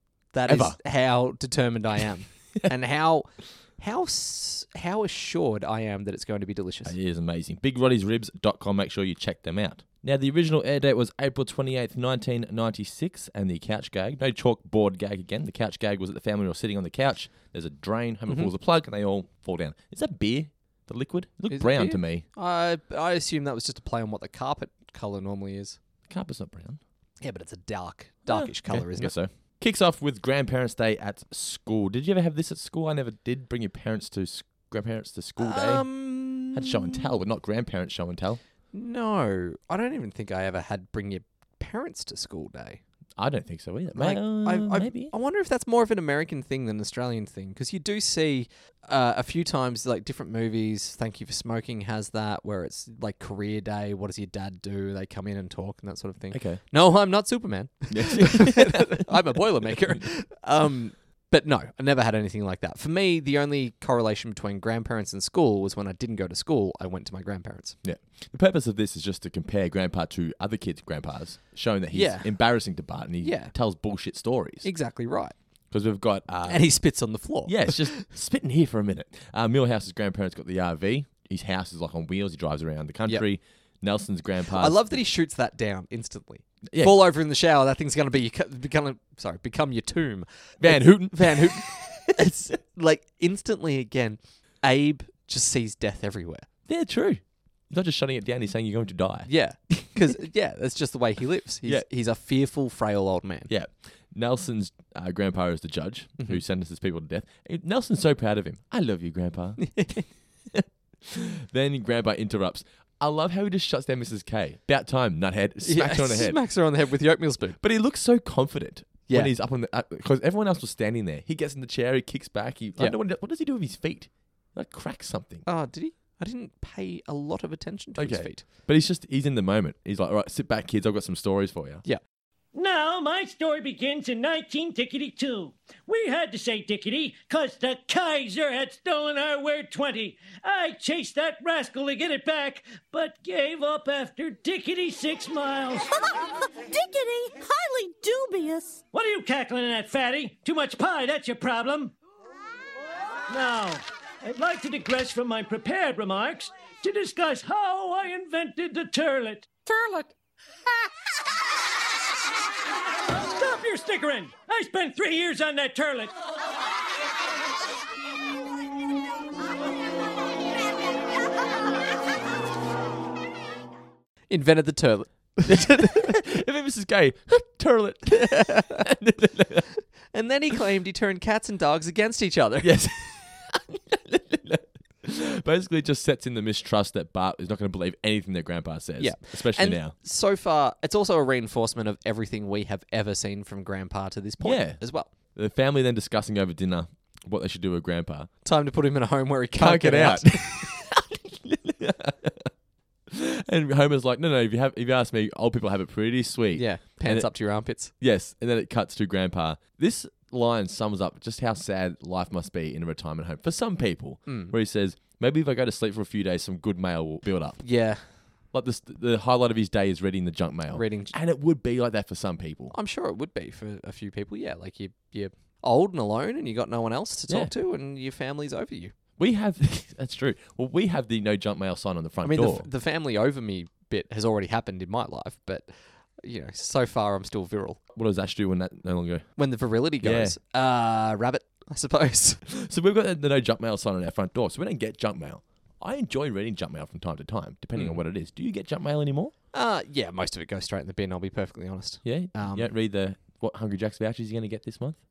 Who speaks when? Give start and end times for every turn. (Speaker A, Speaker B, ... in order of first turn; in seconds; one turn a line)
Speaker A: 0.3-6.9
Speaker B: 0.5-0.8
Speaker B: 6.8-22.2
Speaker A: 21.5-25.8
Speaker B: 26.1-26.8
Speaker A: 27.2-29.1
Speaker B: 28.2-38.4
Speaker A: 35.4-37.1
Speaker A: 38.7-42.8
Speaker B: 43.2-45.1
Speaker A: 43.9-67.8
Speaker B: 56.3-56.6
Speaker B: 57.9-60.0
Speaker B: 67.8-74.7
Speaker A: 71.9-72.3
Speaker A: 73.2-73.5
Speaker A: 74.6-75.3
Speaker B: 75.7-76.7
Speaker A: 76.5-78.0
Speaker B: 77.5-84.9
Speaker A: 84.5-96.5
Speaker B: 86.7-87.0
Speaker B: 90.6-92.3
Speaker B: 96.7-99.9
Speaker A: 99.3-103.5
Speaker B: 103.5-109.9
Speaker A: 109.6-110.0
Speaker B: 110.5-116.4
Speaker A: 115.6-117.6
Speaker B: 117.6-125.4
Speaker A: 125.5-128.4
Speaker B: 128.0-131.8
Speaker C: 132.5-145.9
Speaker D: 146.0-148.8
Speaker C: 148.9-151.9
Speaker C: 153.3-159.5
Speaker D: 159.7-160.1
Speaker C: 163.1-166.1
Speaker A: 174.3-176.2
Speaker B: 175.5-179.7
Speaker A: 178.2-178.8
Speaker A: 180.1-182.7
Speaker B: 182.6-189.9
Speaker A: 189.0-195.1
Speaker B: 194.4-194.8
Speaker B: 195.3-198.3
Speaker A: 198.4-200.6
Speaker B: 199.6-202.5
Speaker B: 203.1-207.3
Speaker A: 206.5-207.9
Speaker B: 208.0-217.6
Speaker A: 214.2-214.5
Speaker A: 217.6-218.0
Speaker B: 218.5-222.7
Speaker A: 220.7-221.1
Speaker A: 222.7-228.9
Speaker B: 229.2-232.7
Speaker A: 232.2-237.8
Speaker B: 237.9-239.2
Speaker A: 239.4-242.4
Speaker B: 240.0-240.3
Speaker B: 242.4-249.3
Speaker A: 249.5-252.7
Speaker B: 252.0-255.0